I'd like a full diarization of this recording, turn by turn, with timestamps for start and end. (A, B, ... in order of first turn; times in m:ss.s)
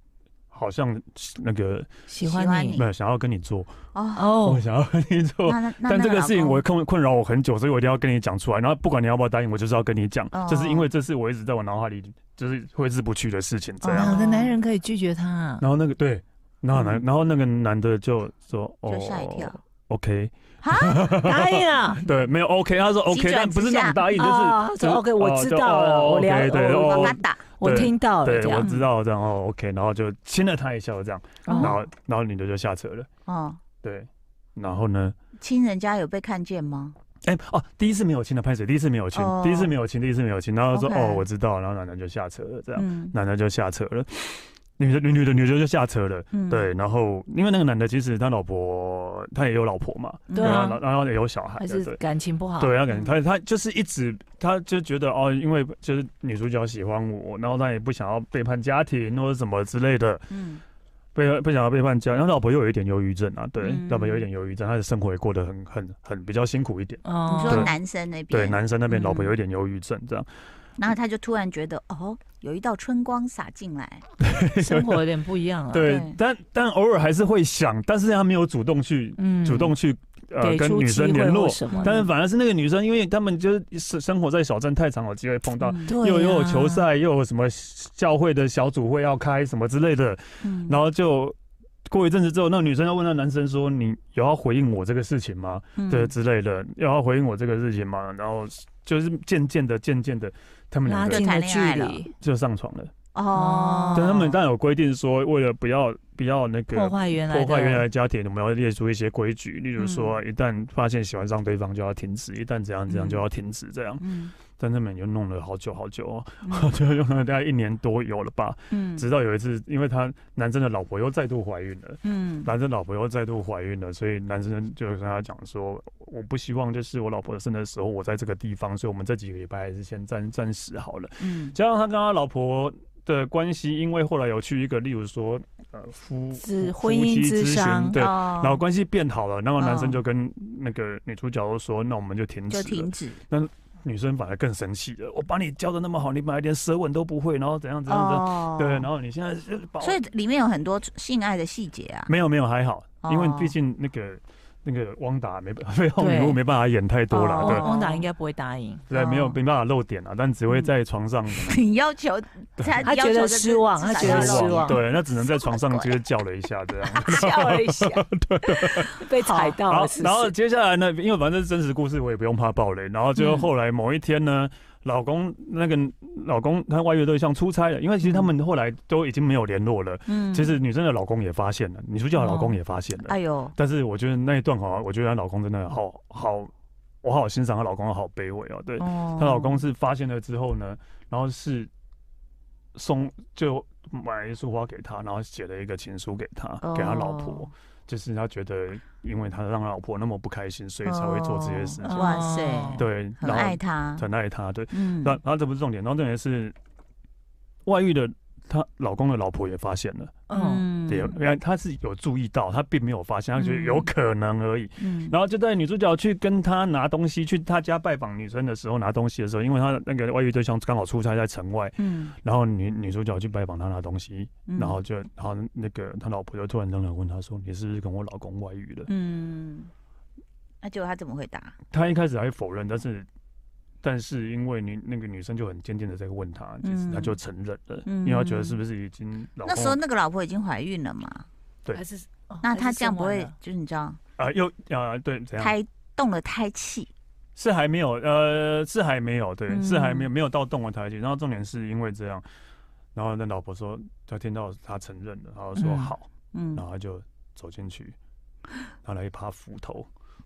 0:00.5-0:01.9 A
0:02.1-0:02.8 B
0:02.2-0:02.8 C
0:02.8-0:03.7 A
0:03.9-0:04.4 C
0:04.2-0:04.6 B
0:04.4-0:14.1 A
0:05.4-0:06.6 C
0:10.3-0:10.9 C
0:13.8-0:14.5 C
0:13.9-0:15.6 B
0:15.6-0:33.1 A
0:16.7-0:17.0 C
0:18.9-0:19.6 C
0:20.6-0:21.1 C
0:21.2-0:22.0 B
0:23.1-0:24.2 C
0:24.2-0:28.7 B
0:26.6-0:27.4 C
0:31.4-0:31.8 B
0:31.5-0:31.8 C
0:33.2-0:33.6 C
0:33.8-0:35.1 A
0:35.4-0:36.9 C
0:37.2-0:52.0 A
0:39.1-0:39.7 C
0:40.7-0:41.2 C
0:42.8-0:43.1 C
0:46.3-0:46.7 C
0:50.3-0:50.7 C
0:50.3-0:50.8 B
0:51.6-0:52.8 B
0:52.6-1:00.3 A
0:52.9-0:53.2 C
1:00.3-1:00.6 C
1:01.1-1:07.7 A
1:03.6-1:04.3 C
1:07.0-1:07.7 B
1:07.2-1:09.3 C
1:08.3-1:10.3 A
1:10.8-1:14.0 C
1:14.2-1:15.1 A
1:14.6-1:15.9 B
1:15.7-1:41.2 A
1:15.8-1:16.2 C
1:19.2-1:19.7 B
1:20.4-1:22.1 B
1:21.7-1:22.0 C
1:25.6-1:25.9 C
1:25.9-1:26.8 B
1:30.4-1:30.8 C
1:35.8-1:36.1 C
1:40.8-1:42.1 B
1:41.1-1:42.0 C
1:42.2-1:42.9 A
1:43.1-1:44.4 C
1:43.3-1:44.2 B
1:43.9-2:30.0 A
1:46.7-1:47.8 B
1:49.8-1:50.2 C
1:52.9-1:53.2 C
1:54.0-1:54.3 C
1:56.4-1:56.7 C
1:58.7-1:59.1 C
2:02.0-2:02.5 C
2:11.2-2:11.6 C
2:16.4-2:18.0 B
2:17.9-2:18.6 C
2:19.6-2:20.0 C
2:22.5-2:23.2 C
2:27.9-2:28.9 C
2:29.8-2:32.1 C
2:32.1-2:37.7 A
2:33.0-2:33.5 C
2:36.0-2:36.4 B
2:37.1-2:38.1 C
2:37.4-2:38.8 B
2:38.9-2:41.6 A
2:38.9-2:39.4 C
2:41.3-2:46.0 C
2:42.8-2:44.8 B
2:44.0-2:49.0 A
2:46.9-2:50.3 B
2:49.2-2:49.6 C
2:49.7-3:06.5 A
2:58.0-2:58.3 C
3:00.1-3:00.6 C
3:02.2-3:02.6 B
3:03.0-3:03.5 C
3:07.0-3:11.7 A
3:08.8-3:09.6 C
3:12.7-3:22.2 A
3:16.6-3:17.5 C
3:20.8-3:24.0 C
3:21.8-3:22.8 B
3:22.8-3:26.5 A
3:24.7-3:25.2 C
3:27.6-3:30.2 A
3:30.3-3:30.6 B
3:30.3-3:31.2 C
3:30.9-3:48.9 A
3:33.4-3:33.9 C
3:34.8-3:35.2 C
3:41.8-3:42.1 C
3:44.5-3:44.8 C
3:48.9-3:49.7 C
3:50.6-3:51.5 C
3:51.7-3:53.1 A
3:53.8-3:59.8 A
3:56.6-3:57.2 C
3:57.8-3:58.6 C
3:59.4-4:01.2 C
4:01.7-4:03.3 B
4:02.4-4:04.0 C
4:04.2-4:05.6 A
4:05.4-4:06.9 C
4:07.4-4:12.2 A
4:09.5-4:10.1 C
4:12.9-4:18.0 A
4:15.6-4:15.9 B
4:16.3-4:16.6 C
4:18.8-4:19.9 A